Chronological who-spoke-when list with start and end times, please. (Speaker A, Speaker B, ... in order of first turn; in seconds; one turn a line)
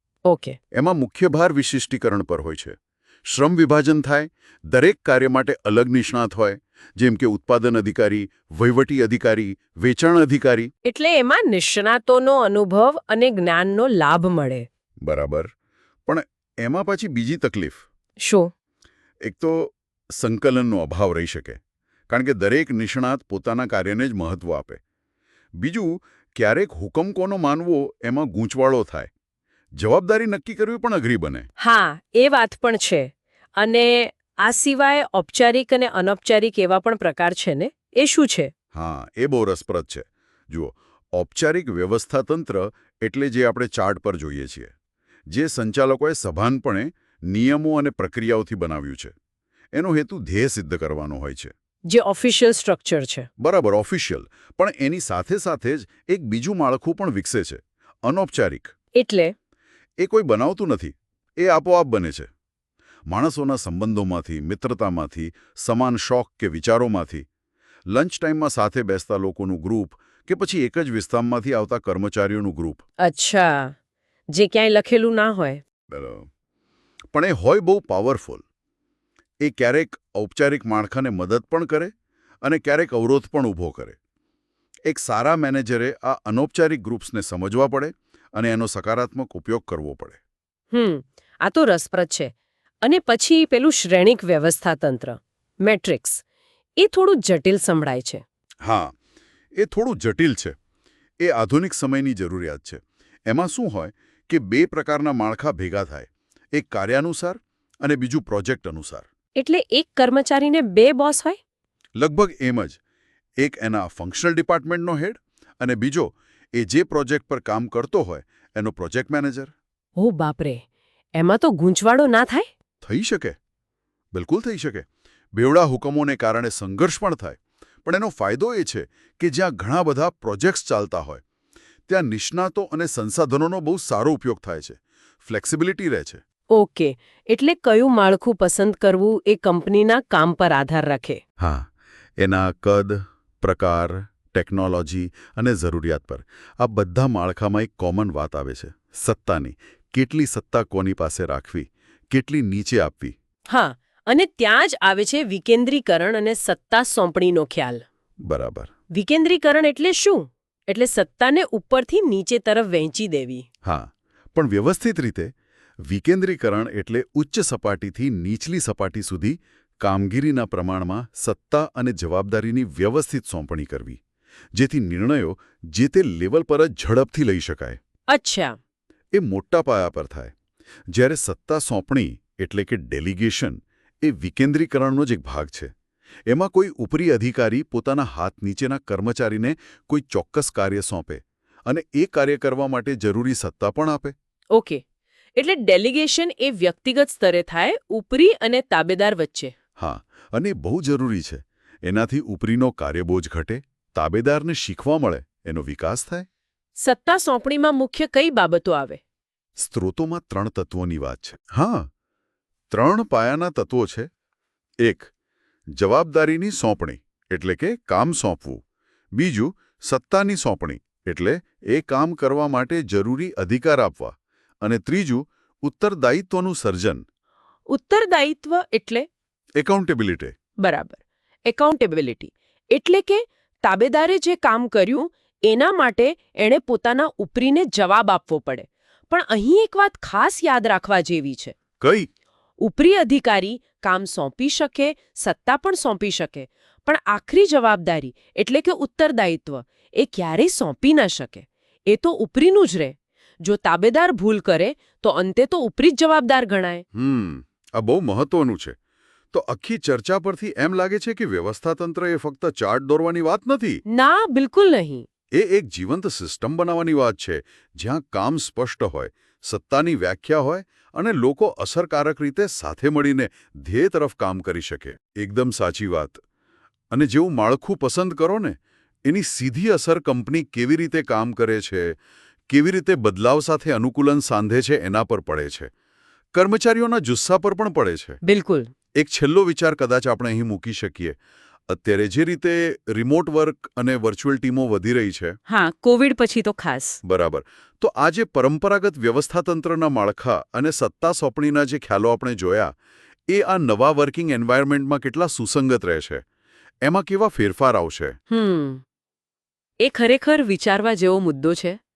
Speaker A: 0.3-0.6
Speaker B: 0.7-10.7
Speaker A: 10.8-14.7
Speaker B: 15.0-15.5
Speaker B: 16.1-17.8
Speaker A: 18.2-18.5
Speaker B: 19.2-24.8
Speaker B: 25.5-29.1
Speaker B: 29.7-31.4
Speaker A: 31.6-38.5
Speaker B: 38.7-44.7
Speaker B: 45.3-49.1
Speaker B: 49.7-51.5
Speaker A: 51.9-53.3
Speaker B: 53.4-58.7
Speaker A: 59.0-59.3
Speaker B: 60.0-62.3
Speaker B: 63.0-67.3
Speaker B: 67.9-72.8
Speaker A: 73.0-73.7
Speaker A: 74.3-75.6
Speaker B: 75.9-76.3
Speaker B: 77.1-78.4
Speaker B: 79.4-81.9
Speaker B: 82.4-84.0
Speaker B: 84.9-90.2
Speaker A: 90.7-92.3
Speaker A: 92.8-96.2
Speaker A: 96.8-98.2
Speaker B: 98.6-98.9
Speaker B: 99.5-100.5
Speaker B: 101.2-109.0
Speaker A: 109.4-111.4
Speaker B: 112.0-112.8
Speaker B: 113.4-119.5
Speaker A: 120.0-120.6
Speaker A: 121.1-122.5
Speaker B: 122.8-123.3
Speaker B: 124.1-131.2
Speaker B: 131.9-136.2
Speaker A: 136.5-141.2
Speaker B: 141.4-153.1
Speaker A: 153.5-157.8
Speaker B: 158.2-158.7
Speaker A: 158.9-163.4
Speaker B: 163.6-174.0
Speaker B: 174.5-177.8
Speaker A: 178.1-178.6
Speaker B: 179.1-180.3
Speaker B: 180.9-185.7
Speaker B: 186.3-194.1
Speaker A: 194.5-194.8
Speaker A: 195.4-199.5
Speaker B: 199.8-206.2
Speaker A: 206.8-209.0
Speaker B: 209.6-211.9
Speaker B: 212.7-214.1
Speaker B: 214.8-215.1
Speaker B: 215.7-218.6
Speaker B: 219.1-227.0
Speaker A: 227.7-229.1
Speaker B: 229.6-230.3
Speaker A: 230.6-241.5
Speaker B: 241.8-242.1
Speaker A: 242.6-256.8
Speaker B: 256.9-258.8
Speaker B: 259.3-263.8
Speaker A: 263.9-265.1
Speaker B: 265.3-276.2
Speaker B: 276.9-282.0
Speaker B: 282.5-285.7
Speaker B: 286.3-288.2
Speaker A: 288.2-288.7
Speaker B: 288.9-295.4
Speaker A: 295.5-297.0
Speaker B: 297.0-302.7
Speaker B: 303.3-306.2
Speaker B: 306.8-308.2
Speaker A: 308.3-308.8
Speaker A: 309.8-311.8